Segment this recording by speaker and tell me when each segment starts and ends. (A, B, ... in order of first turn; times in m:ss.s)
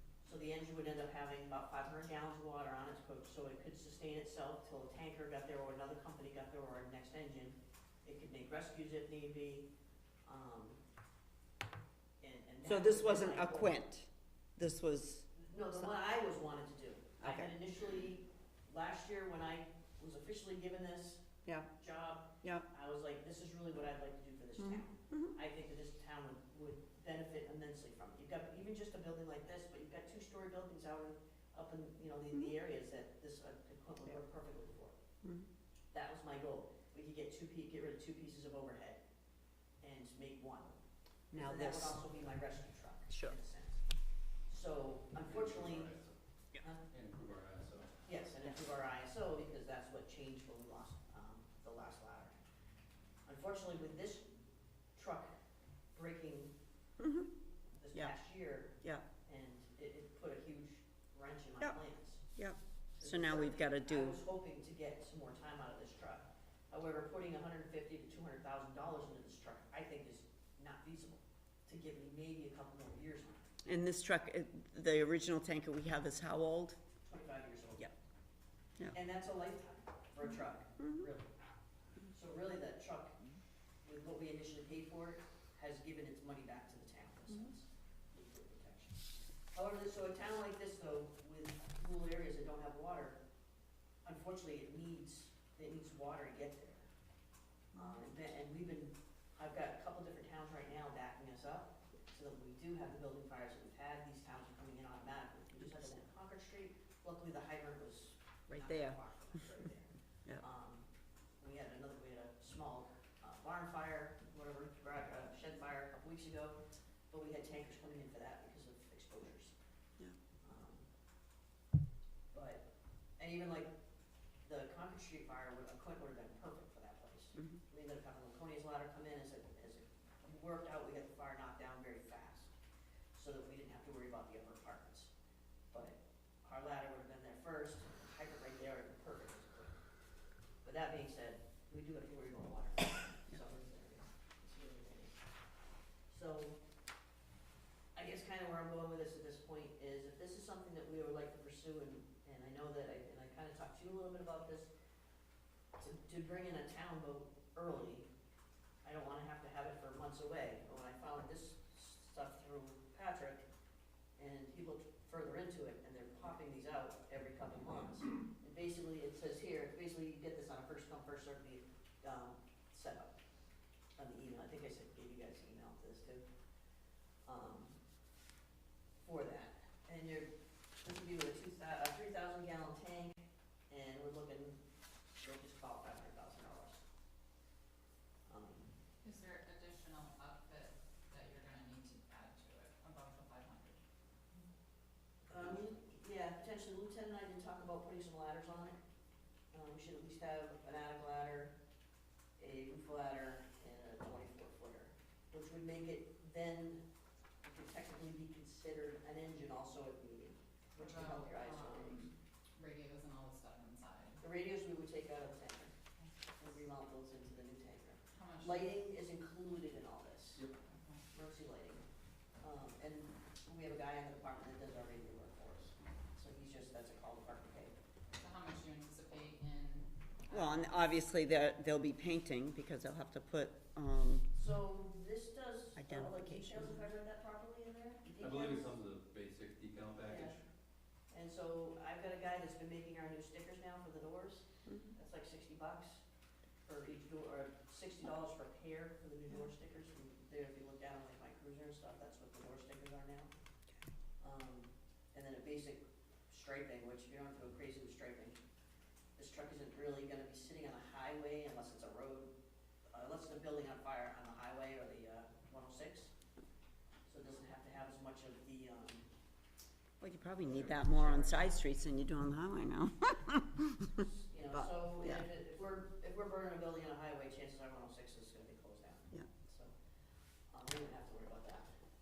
0:00.2-0:09.7 A
0:10.2-0:10.8 A
0:12.2-0:13.8 A
0:12.6-0:15.9 B
0:15.4-0:21.2 A
0:17.2-0:17.5 B
0:21.8-0:35.0 A
0:24.6-0:25.4 B
0:35.2-0:35.5 B
0:35.9-0:39.0 A
0:39.8-0:40.8 A
0:41.3-0:42.0 B
0:41.3-0:43.8 A
0:43.1-0:43.3 B
0:44.5-0:45.9 A
0:45.2-0:46.2 C
0:46.9-0:47.9 C
0:48.0-0:52.4 A
0:53.3-0:54.3 A
0:55.0-0:55.4 A
0:55.9-0:56.5 A
0:57.0-0:57.3 B
0:57.8-0:58.7 A
0:59.3-1:02.2 A
1:02.3-1:04.2 B
1:03.0-1:13.5 A
1:13.6-1:16.8 B
1:17.1-1:17.9 A
1:18.9-1:21.3 A
1:20.8-1:21.0 B
1:22.1-1:23.2 A
1:23.8-1:33.2 A
1:34.0-1:36.9 A
1:37.8-1:38.0 B
1:37.8-1:50.9 A
1:48.5-1:49.0 B
1:51.4-1:59.5 A
2:00.4-2:00.9 A
2:02.3-2:02.6 A
2:03.2-2:03.7 A
2:04.4-2:12.5 A
2:07.4-2:07.6 B
2:13.1-2:15.1 A
2:15.7-2:19.8 A
2:20.6-2:25.2 A
2:26.1-2:26.6 A
2:28.0-2:34.7 A
2:35.8-2:38.1 A
2:38.8-2:43.5 A
2:44.2-2:53.1 A
2:54.0-2:56.2 A
2:57.2-2:57.8 A
2:59.0-3:00.3 A
3:00.8-3:04.6 A
3:05.2-3:06.8 A
3:08.3-3:08.7 A
3:09.0-3:13.8 D
3:15.3-3:18.8 A
3:19.5-3:21.5 A
3:22.4-3:26.8 A
3:27.4-3:32.1 A
3:30.8-3:34.2 D
3:34.2-3:35.7 A
3:36.4-3:40.4 A
3:38.1-3:38.7 D
3:40.6-3:41.0 D
3:41.1-3:41.8 A
3:42.4-3:47.7 A
3:48.2-3:50.6 D
3:50.3-3:54.3 B
3:54.3-3:58.7 A
3:55.8-3:56.8 B
3:58.2-4:00.4 C
4:00.0-4:00.4 A
4:01.1-4:06.0 A
4:04.7-4:04.9 B
4:06.6-4:13.3 A
4:14.2-4:18.4 A
4:19.2-4:22.3 A
4:22.9-4:26.1 A
4:27.1-4:29.1 A
4:30.0-4:35.2 B
4:30.4-4:31.6 A
4:34.0-4:39.7 A
4:40.5-4:41.7 A